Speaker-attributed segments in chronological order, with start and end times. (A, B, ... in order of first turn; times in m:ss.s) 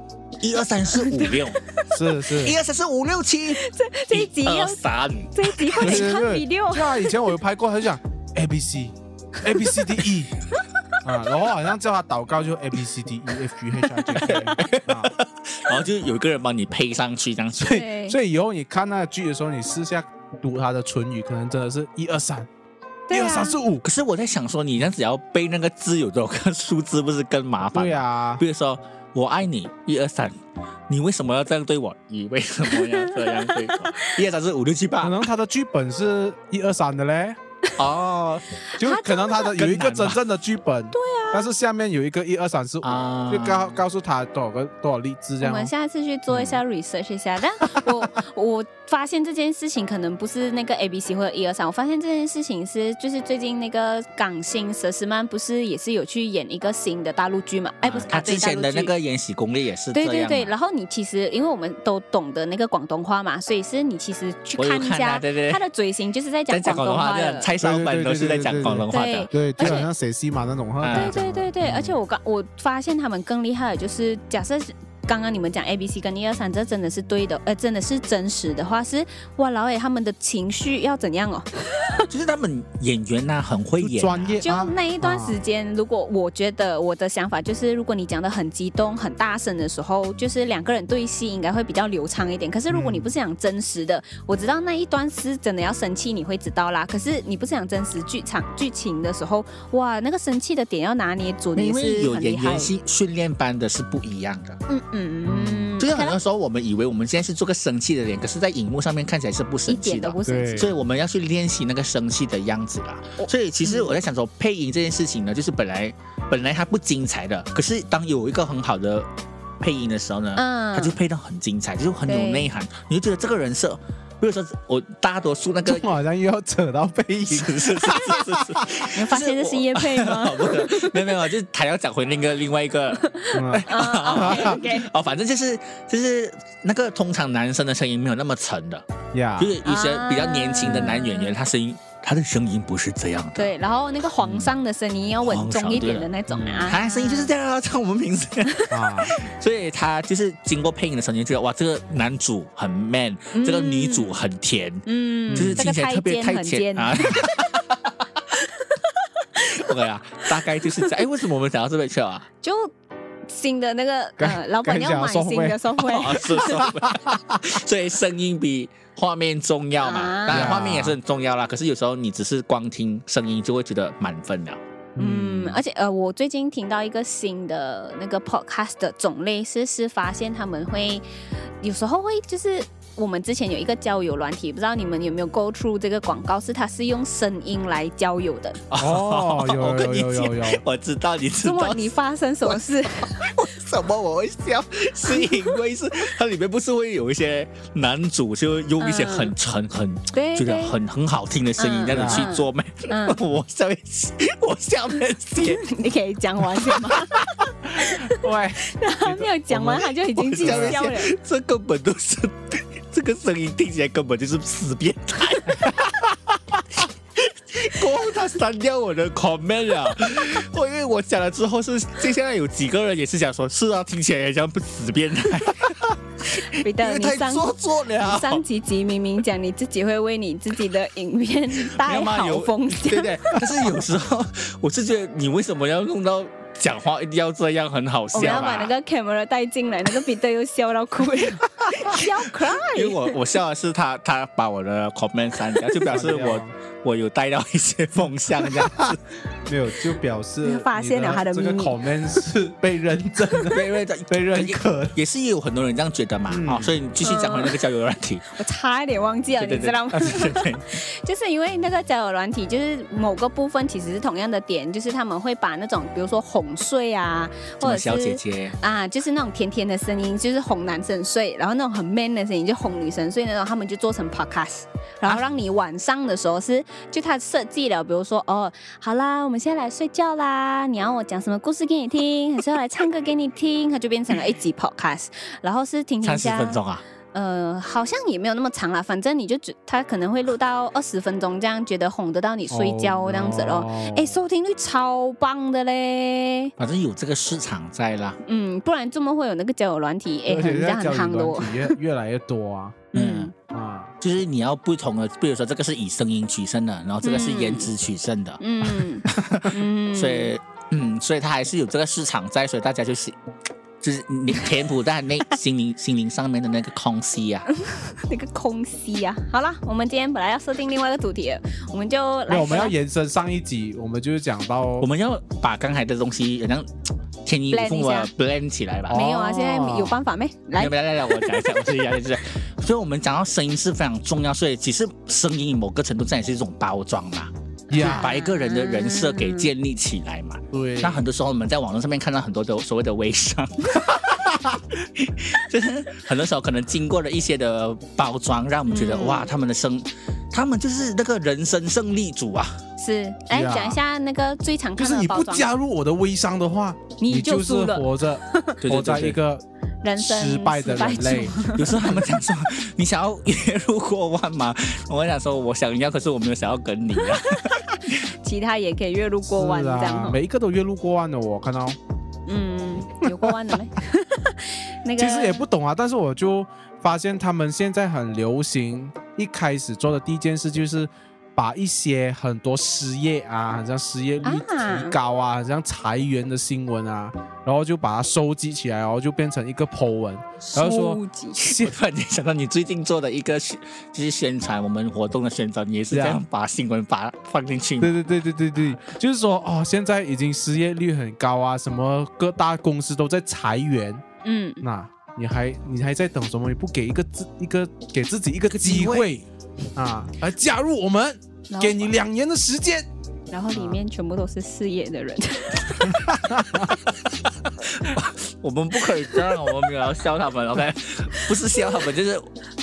0:00.4-0:01.7 A
0:00.9-0:02.0 B
0:01.9-0:02.6 C
0:02.2-0:06.1 A
0:03.5-0:07.2 B
0:05.8-0:10.4 C
0:09.5-0:09.9 B
0:11.0-0:15.1 C
0:14.1-0:14.6 B
0:14.2-0:17.8 A
0:17.6-0:18.2 B
0:17.6-0:22.5 C
0:23.1-0:23.6 B
0:23.1-0:23.8 C
0:23.8-0:35.2 A
0:27.7-0:28.4 C
0:32.7-0:34.2 B
0:35.0-0:37.4 C
0:37.8-0:38.4 A
0:38.7-0:39.5 B
0:38.8-0:45.7 C
0:39.5-0:40.2 A
0:40.9-0:41.5 B
0:42.8-0:43.8 A
0:45.4-0:58.9 B
0:57.8-1:00.5 A
0:59.9-1:07.5 B
1:04.6-1:05.6 A
1:06.5-1:09.8 A
1:07.6-1:11.5 C
1:08.9-1:09.9 B
1:10.8-1:11.9 A
1:10.9-1:22.0 B
1:22.1-1:24.4 A
1:23.8-1:25.4 C
1:24.4-1:42.7 B
1:32.7-1:33.1 C
1:41.6-1:44.6 A
1:44.7-1:46.2 B
1:45.3-1:45.8 C
1:45.8-1:59.1 A
1:49.7-1:50.7 B
1:50.3-1:50.7 C
1:53.2-1:53.9 B
1:59.6-2:05.9 A
2:00.4-2:01.0 B
2:02.1-2:02.5 B
2:05.7-2:08.9 C
2:07.3-2:18.9 A
2:08.9-2:11.2 B
2:13.0-2:14.9 B
2:13.3-2:14.6 C
2:19.1-2:19.6 C
2:19.4-2:23.5 A
2:19.6-2:21.3 B
2:20.6-2:20.9 C
2:23.4-2:27.3 B
2:24.2-2:24.5 A
2:25.2-2:26.1 A
2:26.3-2:26.7 C
2:26.6-2:37.5 A
2:28.7-2:29.2 C
2:33.3-2:34.2 B
2:34.9-2:37.3 B
2:35.3-2:35.6 C
2:38.4-2:39.6 B
2:39.4-2:42.3 A
2:42.4-2:42.7 B
2:43.3-2:46.7 B
2:44.2-2:47.4 C
2:45.8-2:54.6 A
2:49.8-2:50.6 B
2:50.3-2:51.0 C
2:55.0-2:55.6 C
2:55.0-3:01.0 B
3:01.6-3:08.6 B
3:08.7-3:11.9 A
3:08.8-3:10.6 C
3:11.4-3:13.4 B
3:12.4-3:25.7 A
3:18.8-3:19.3 B
3:20.1-3:20.8 B
3:21.6-3:23.2 B
3:21.9-3:22.2 C
3:25.4-3:27.2 B
3:27.7-3:31.1 B
3:27.8-3:30.8 C
3:30.2-3:35.9 A
3:37.2-3:48.4 A
3:46.5-3:53.5 B
3:51.6-3:58.7 A
3:58.1-4:03.2 B
4:01.8-4:09.0 A
4:05.8-4:06.5 C
4:08.4-4:15.0 C
4:10.4-4:11.8 B
4:13.5-4:18.3 A
4:16.3-4:16.8 C
4:17.0-4:17.6 B
4:18.3-4:46.6 B
4:19.4-4:20.7 A
4:27.6-4:28.6 A
4:46.0-4:46.8 A
4:47.1-4:56.5 B
4:52.5-4:54.2 C
4:56.6-4:58.2 A
4:58.2-5:01.8 B
5:00.3-5:03.9 C
5:02.9-5:03.3 A
5:02.9-5:03.3 B
5:04.0-5:13.2 A
5:07.0-5:07.7 B
5:08.4-5:10.3 B
5:13.8-5:17.5 A
5:17.5-5:22.8 B
5:22.3-5:24.9 C
5:24.8-5:26.7 A
5:27.2-5:29.0 A
5:27.5-5:28.1 B
5:28.9-5:30.0 C
5:28.9-5:31.7 B
5:30.6-5:52.6 A
5:37.7-5:38.1 C
5:37.7-5:39.5 B
5:40.5-5:41.0 C
5:48.7-5:49.3 B
5:52.8-5:55.5 B
5:53.3-5:53.8 C
5:54.8-5:59.4 C
5:57.0-5:58.6 B
5:58.6-5:59.2 A
5:59.8-6:02.0 B
6:00.0-6:01.8 C
6:01.5-6:08.1 A
6:07.1-6:10.2 B
6:09.3-6:11.8 C
6:12.3-6:15.5 B
6:13.1-6:13.3 C
6:15.0-6:31.7 C
6:24.2-6:24.9 B
6:30.5-6:31.5 B
6:31.4-6:38.0 A
6:35.9-6:36.2 C
6:37.8-6:44.0 C
6:44.2-6:44.6 B
6:44.6-6:52.9 C
6:48.5-6:49.1 A
6:51.5-6:51.9 B
6:53.3-6:56.5 B
6:53.5-6:53.8 C
6:55.9-6:56.7 C
6:56.9-7:02.3 A